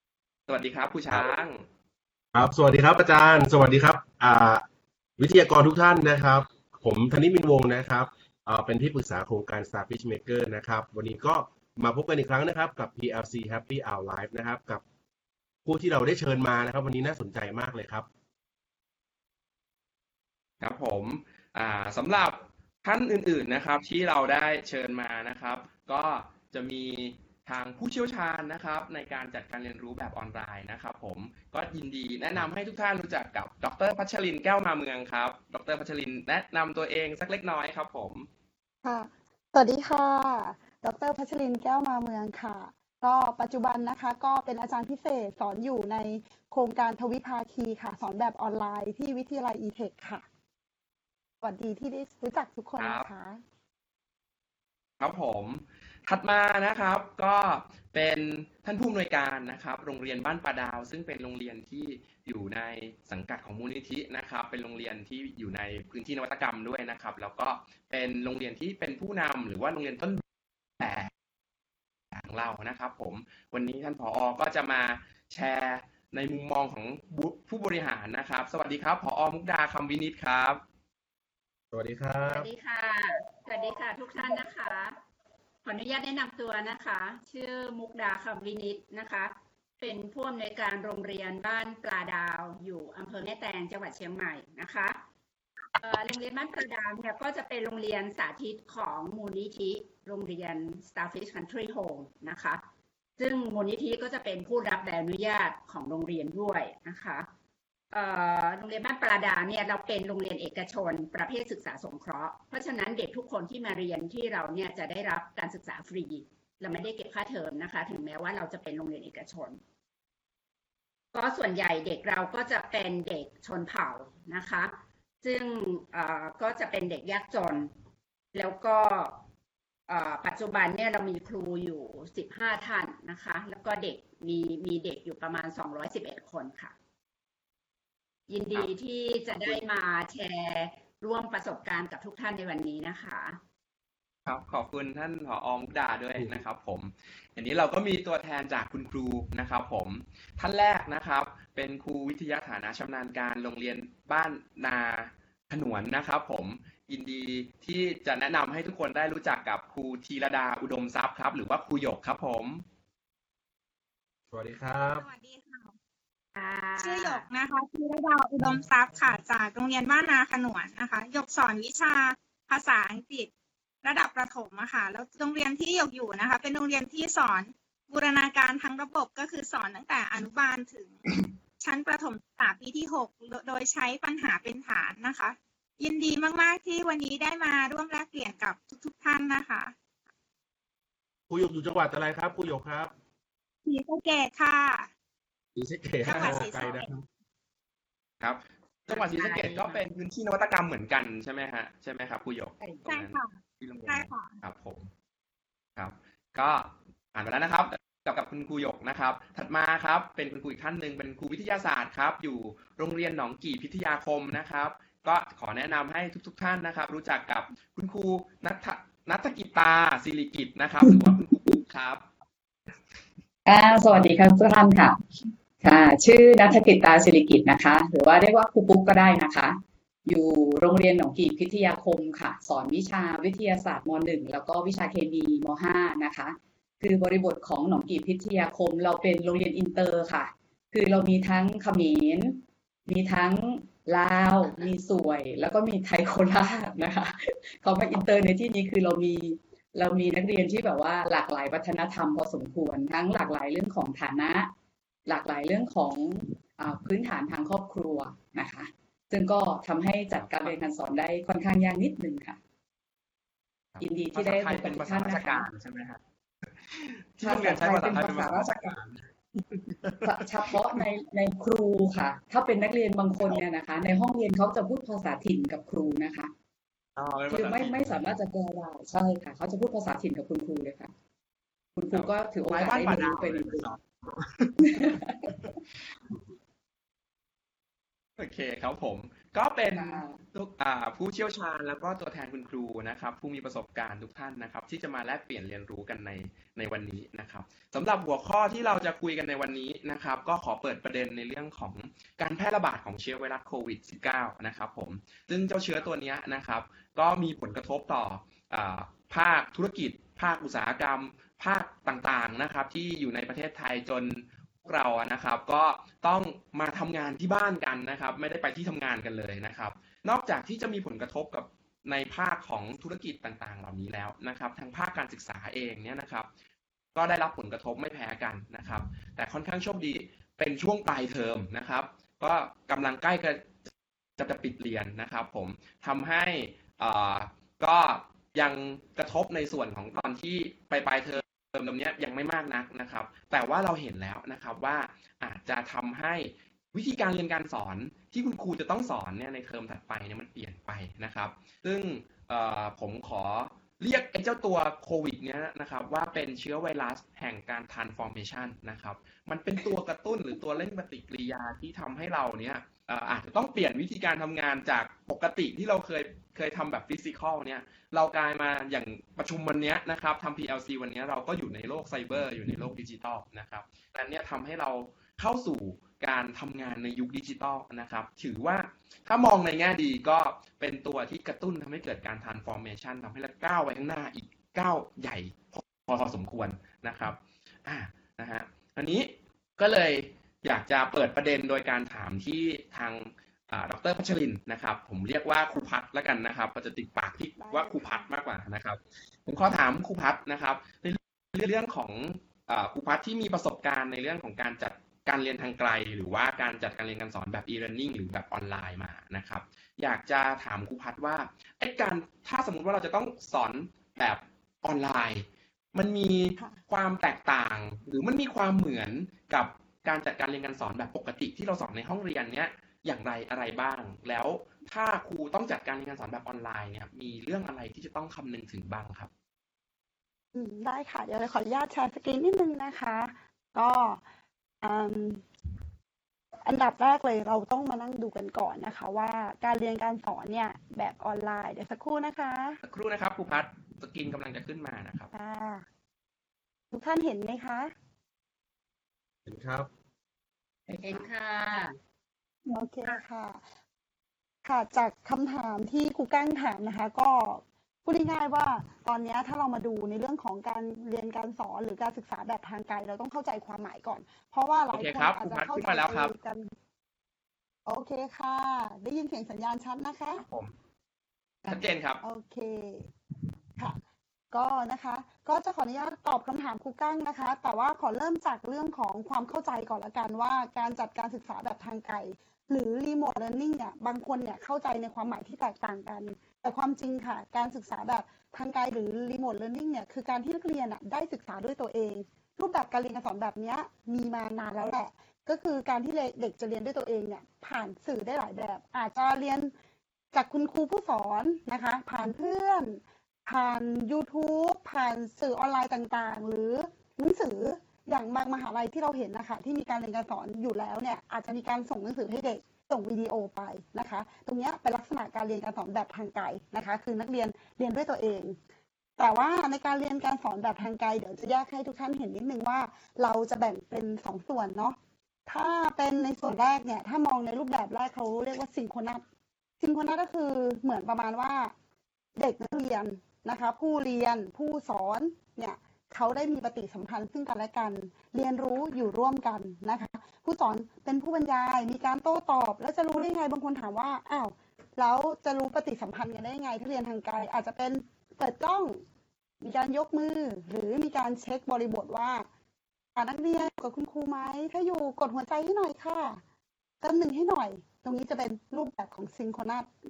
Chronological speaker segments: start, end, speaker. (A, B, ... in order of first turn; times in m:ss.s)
0:00.5-0:01.6 A
0:02.3-0:04.6 B
0:05.2-0:14.8 B
0:15.6-0:18.1 B
0:20.6-0:38.3 A
0:38.8-0:50.2 C
0:51.4-0:53.4 C
0:52.8-0:53.1 A
0:55.0-1:10.2 A
1:10.8-1:11.1 A
1:12.1-1:20.6 A
1:21.7-1:22.5 B
1:22.2-1:25.0 D
1:25.6-1:35.0 D
1:35.7-1:42.6 D
1:43.2-1:47.3 D
1:47.9-1:59.6 D
2:01.1-2:07.7 D
2:08.3-2:09.2 D
2:09.9-2:16.7 D
2:18.3-2:23.4 D
2:24.2-2:42.6 A
2:44.3-2:45.1 B
2:44.9-2:45.7 E
2:46.3-2:47.2 D
2:46.8-2:53.3 E
2:53.8-3:09.7 E
3:11.3-3:12.9 B
3:13.6-3:14.9 E
3:15.6-3:16.8 B
3:16.0-3:16.8 E
3:16.1-3:16.4 A
3:18.2-3:24.9 A
3:18.9-3:19.8 D
3:22.9-3:23.3 E
3:23.9-3:24.3 E
3:25.8-3:42.0 A
3:43.4-3:45.0 F
3:45.6-4:14.5 F
4:15.0-4:22.4 F
4:20.1-4:20.6 A
4:23.7-4:26.0 A
4:23.8-4:25.5 F
4:26.7-4:30.6 A
4:27.2-4:28.6 F
4:30.0-4:36.3 F
4:37.0-4:38.2 A
4:37.3-4:40.9 F
4:41.8-4:43.7 F
4:41.9-4:45.5 A
4:44.7-4:45.3 F
4:48.2-5:26.3 A
4:49.7-4:50.2 F
5:26.9-7:09.1 A
6:37.4-6:38.1 C
7:10.3-7:14.0 C
7:14.6-7:15.2 C
7:16.4-7:22.6 C
7:22.6-7:25.1 A
7:25.1-7:25.6 C
7:26.7-7:27.7 C
7:29.2-7:29.7 B
7:30.8-7:31.6 D
7:32.5-7:33.4 C
7:34.4-7:46.5 C
7:44.7-7:46.1 A
7:47.6-7:50.2 C
7:50.1-7:50.5 A
7:51.4-7:52.9 C
7:51.5-7:52.0 A
7:54.3-8:19.5 C
8:20.1-8:38.4 C
8:39.0-8:49.0 C
8:49.6-8:51.5 C
8:52.2-9:08.8 C
9:09.4-9:12.3 C
9:13.0-9:16.2 C
9:16.8-9:19.7 C